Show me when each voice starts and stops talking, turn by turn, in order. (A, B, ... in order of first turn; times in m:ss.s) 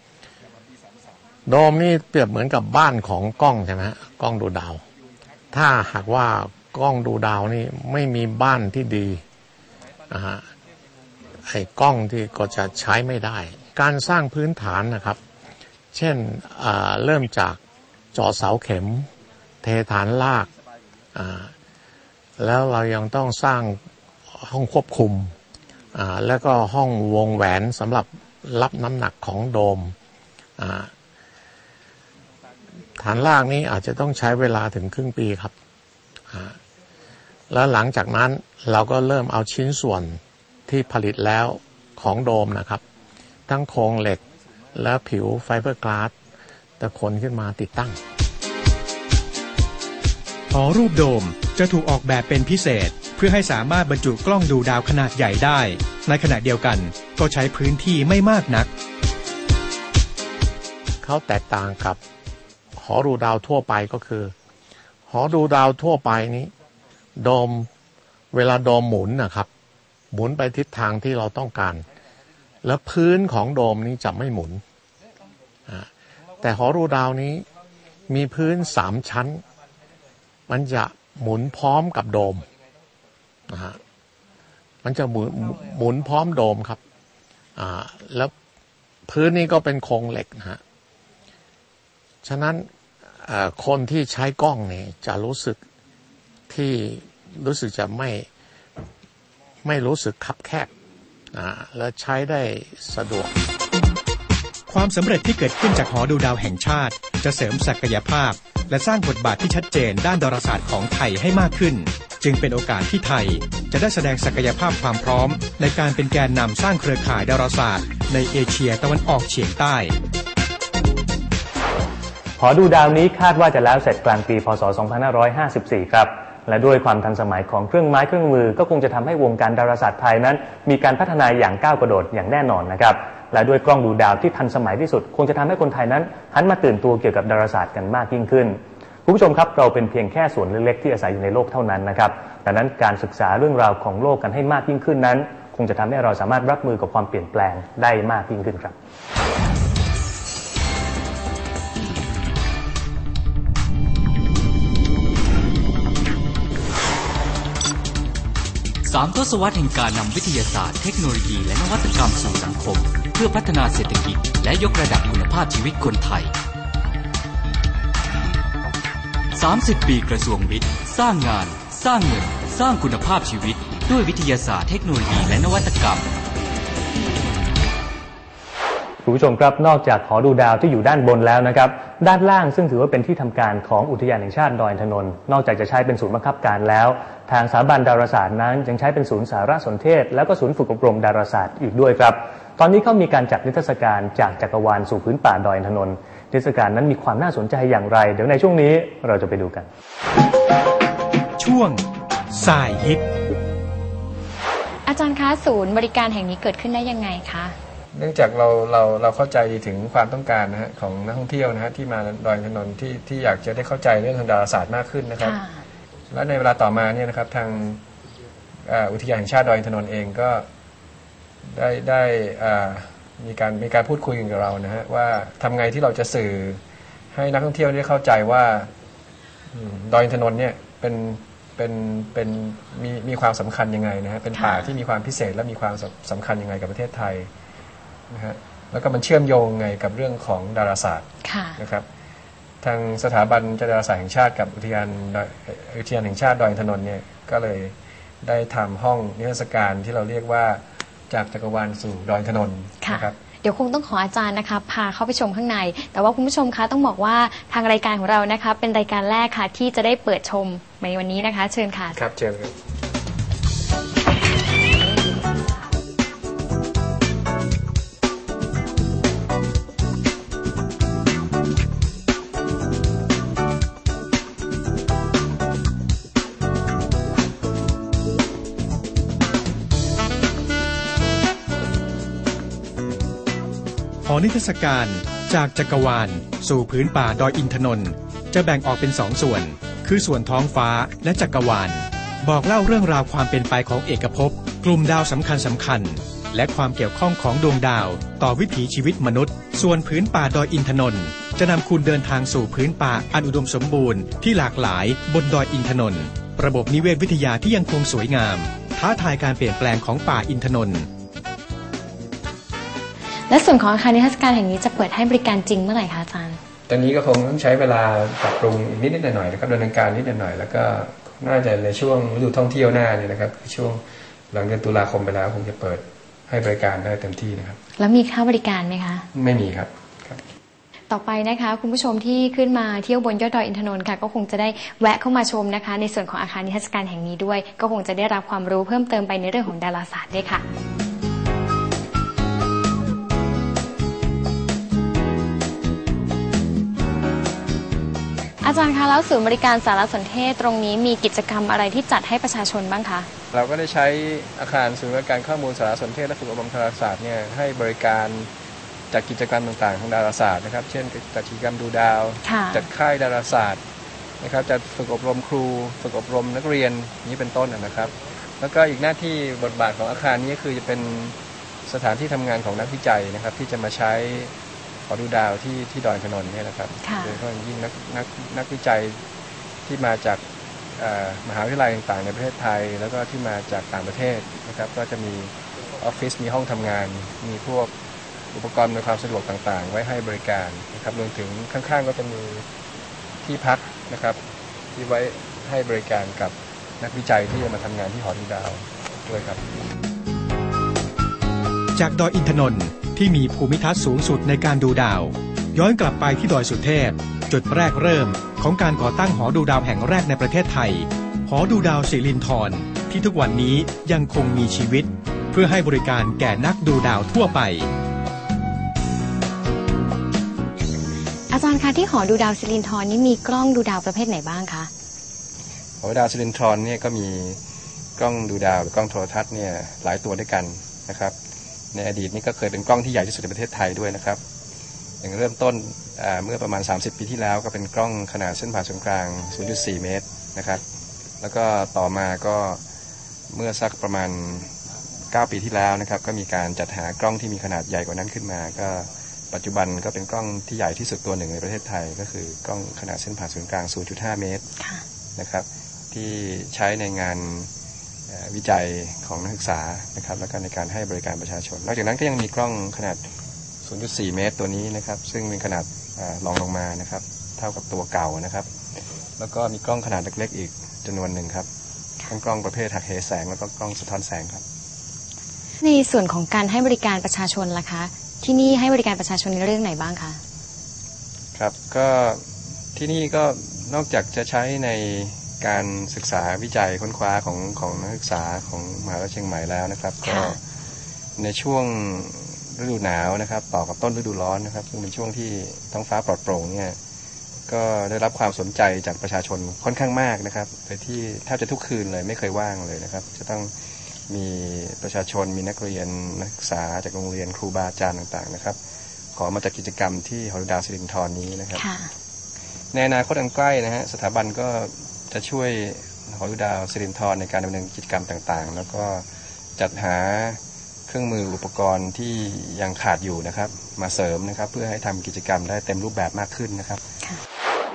0:01.5-0:04.8 A
0:05.5-0:09.2 A
0:10.1-0:10.5 A
0:11.5-0:15.2 A
0:15.9-0:17.6 A
0:18.1-0:19.1 A
0:19.6-0:20.5 A
0:21.2-0:21.5 A
0:22.4-0:23.8 A
0:24.3-0:25.3 A
0:25.9-0:29.9 A
0:30.6-0:30.9 A
0:33.0-0:35.5 A
0:36.3-0:36.6 A
0:37.5-0:42.8 A
0:43.5-0:44.2 A
0:44.8-0:46.1 A
0:46.8-0:48.0 A
0:50.5-0:58.7 B
1:01.0-1:02.0 A
1:02.8-1:04.3 A
1:05.1-1:06.5 A
1:07.2-1:07.7 A
1:08.3-1:09.5 A
1:10.1-1:11.8 A
1:12.6-1:14.6 A
1:16.4-1:17.4 A
1:18.1-1:19.4 A
1:20.5-1:22.5 A
1:23.5-1:23.8 A
1:24.8-1:26.8 A
1:27.6-1:28.3 A
1:29.1-1:30.6 A
1:32.2-1:32.7 A
1:33.2-1:35.6 A
1:36.5-1:38.3 A
1:39.6-1:40.7 A
1:41.3-1:43.3 A
1:44.7-1:59.9 B
2:02.4-2:28.8 C
2:38.9-2:46.3 D
2:49.4-2:56.1 D
2:59.0-3:19.7 C
3:21.4-3:23.0 B
3:24.9-3:27.6 E
3:27.9-3:35.4 F
3:35.2-3:35.6 E
3:36.1-3:37.8 F
3:38.7-3:40.5 F
3:41.4-3:46.6 F
3:47.1-3:48.7 F
3:49.5-3:57.3 F
3:54.3-3:54.7 E
3:58.1-4:01.8 F
4:01.2-4:01.6 E
4:02.6-4:13.2 F
4:12.8-4:22.0 E
4:21.9-4:22.5 F
4:44.0-5:10.9 B
5:13.3-5:16.4 E
5:16.7-5:23.8 F
5:24.3-5:27.6 F
5:27.8-5:29.0 E
5:29.1-5:30.2 F
5:30.9-5:40.4 E
5:48.4-5:53.1 E
5:53.3-5:58.3 F
5:58.9-6:03.6 F
6:02.2-6:02.7 E
6:04.2-6:14.3 F
6:14.9-6:19.0 F
6:16.8-6:17.2 E
6:19.7-6:20.2 F
6:20.8-6:27.7 F
6:28.3-6:32.5 F
6:33.2-6:34.2 F
6:34.7-6:39.4 F
6:41.8-6:57.7 B
7:01.3-7:04.7 E
7:05.8-7:07.4 F
7:08.0-7:11.2 F
7:11.7-7:14.2 F
7:15.0-7:20.6 F
7:21.2-7:22.6 F
7:23.3-7:24.5 F
7:25.1-7:34.4 F
7:35.2-7:37.5 F
7:38.1-7:43.0 F
7:43.6-7:48.5 F
7:49.2-7:51.5 F
7:52.1-7:54.4 F
7:55.6-8:00.2 E
8:01.4-8:02.2 F
8:02.8-8:10.4 F
8:10.0-8:10.4 E
8:11.2-8:16.8 F
8:17.5-8:23.5 F
8:24.1-8:28.6 F
8:29.2-8:31.6 F
8:31.6-8:31.9 E
8:32.7-8:39.0 F
8:39.6-8:46.8 F